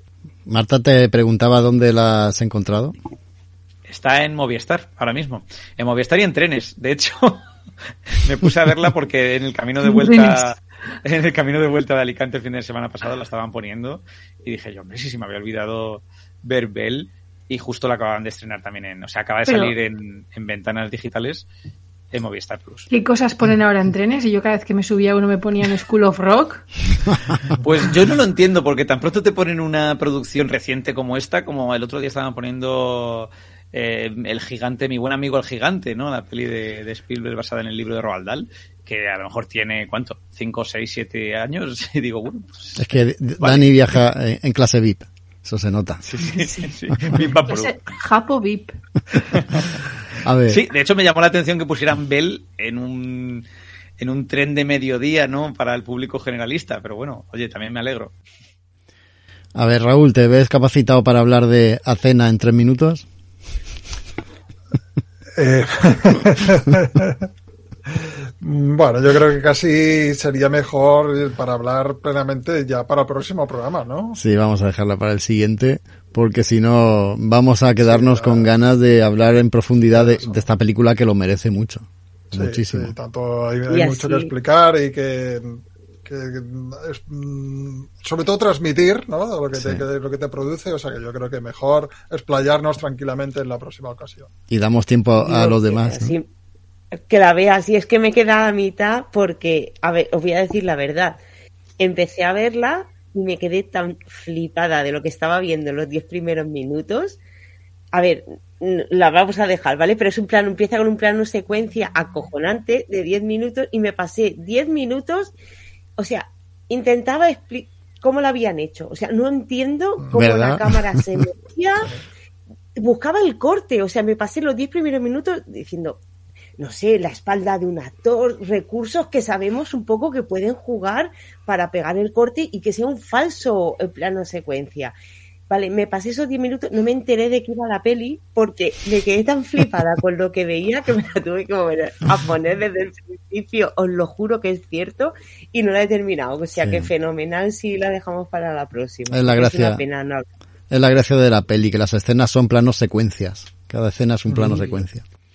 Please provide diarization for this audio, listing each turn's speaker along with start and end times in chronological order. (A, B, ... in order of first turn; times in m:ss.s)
0:00.5-0:02.9 A
0:03.9-0:07.4 B
0:08.1-0:21.5 B
0:09.8-0:10.5 C
0:19.5-0:19.7 C
0:22.1-0:22.9 B
0:22.9-0:26.6 C
0:27.6-0:42.9 B
0:42.8-0:46.0 A
0:43.4-0:43.7 B
0:46.0-0:47.7 B
0:46.2-0:48.7 C
0:49.1-0:49.7 B
0:50.2-0:50.6 A
0:50.5-0:53.4 B
0:54.0-0:58.1 B
0:59.5-1:03.0 A
1:05.4-1:07.3 D
1:07.9-1:14.2 D
1:14.1-1:22.9 A
1:17.8-1:18.5 D
1:19.9-1:20.4 D
1:22.3-1:34.3 D
1:23.7-1:24.3 E
1:29.5-1:29.8 A
1:34.5-1:36.1 A
1:35.2-1:36.3 E
1:36.9-1:41.2 E
1:41.8-1:47.2 E
1:47.9-1:55.3 E
1:56.0-2:01.9 E
2:00.1-2:01.2 A
2:02.8-2:06.0 E
2:06.6-2:14.9 E
2:15.5-2:30.3 E
2:26.6-2:26.9 A
2:29.1-2:29.8 A
2:30.7-2:35.0 A